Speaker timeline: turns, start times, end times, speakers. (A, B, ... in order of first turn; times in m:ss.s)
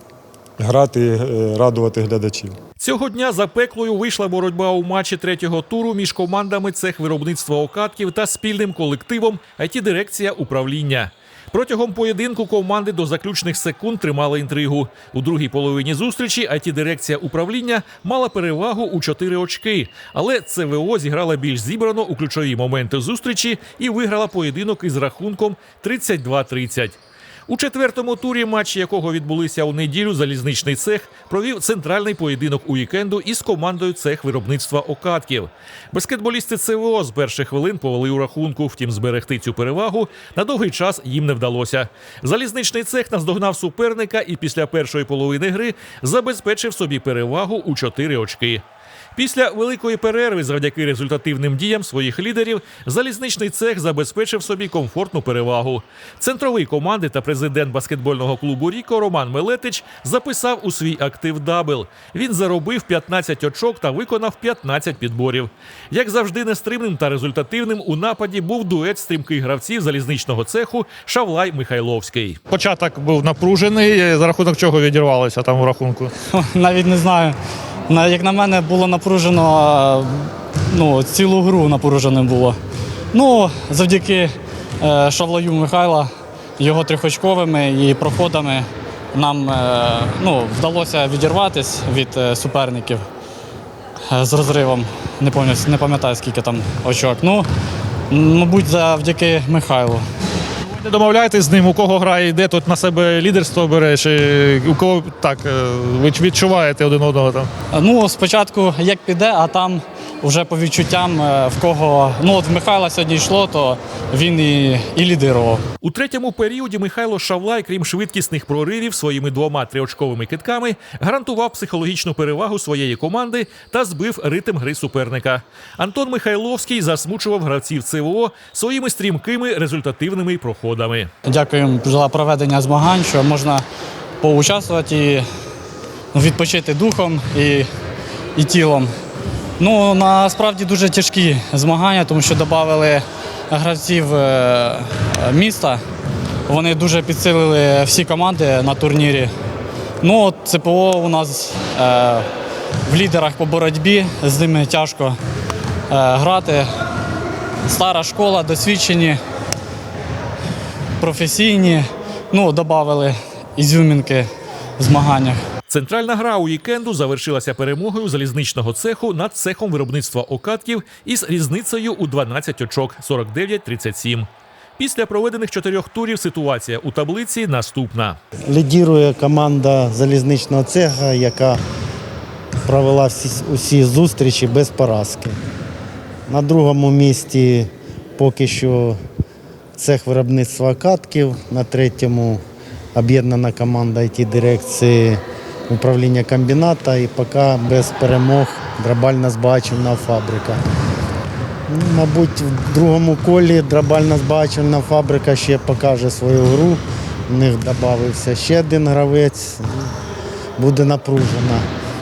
0:00.6-0:02.6 A
0:02.8-0:48.6 B
0:49.2-1:12.4 B
1:12.5-1:16.1 C
1:16.3-1:17.4 D
1:17.9-1:22.6 D
1:23.1-1:33.0 D
1:34.1-1:37.5 D
1:38.1-1:40.1 D
1:40.7-1:47.5 C
1:47.7-1:55.6 D
1:55.8-2:11.1 B
2:11.3-2:13.6 D
2:14.2-2:15.3 D
2:16.1-2:17.7 D
2:18.4-2:18.9 D
2:19.6-2:25.8 D
2:26.5-2:29.3 D
2:30.0-2:32.3 D
2:32.9-2:35.2 D
2:35.9-2:36.7 D
2:37.7-2:39.2 D
2:41.0-2:45.4 D
2:45.7-2:58.2 B
2:58.5-3:01.6 E
3:02.7-3:05.4 E
3:06.3-3:09.0 E
3:09.8-3:12.4 E
3:13.0-3:20.6 E
3:21.7-3:29.9 E
3:30.6-3:31.6 E